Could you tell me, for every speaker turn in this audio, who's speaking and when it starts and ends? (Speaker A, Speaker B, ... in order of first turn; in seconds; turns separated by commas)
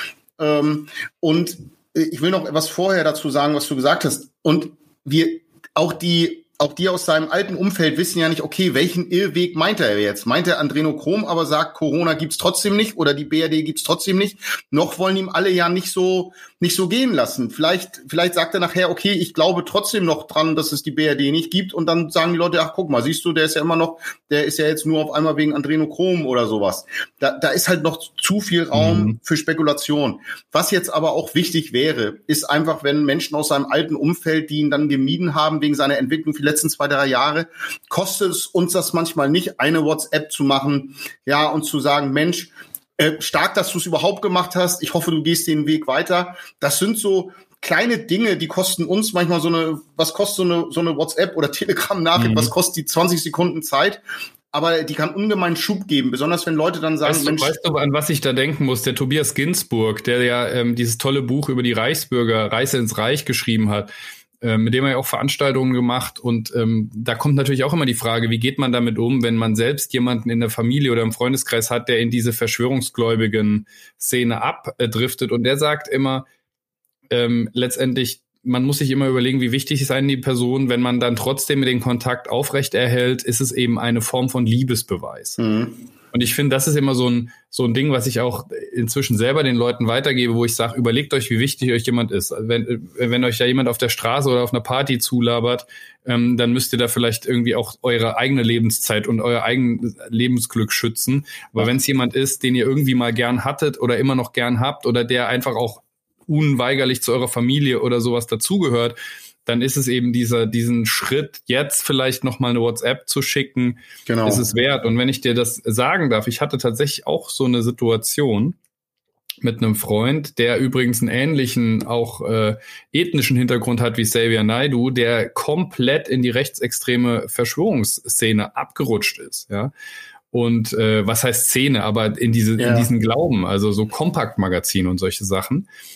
Speaker A: 0.4-54.0, Speaker B: 28.7-29.1, Speaker B: 52.1-52.5, Speaker A: 54.5-57.5, Speaker B: 57.0-76.2, Speaker B: 77.1-85.4, Speaker A: 85.4-85.8, Speaker B: 86.1-118.6, Speaker A: 114.0-114.4, Speaker B: 119.4-129.7, Speaker B: 130.3-135.7, Speaker A: 132.6-132.9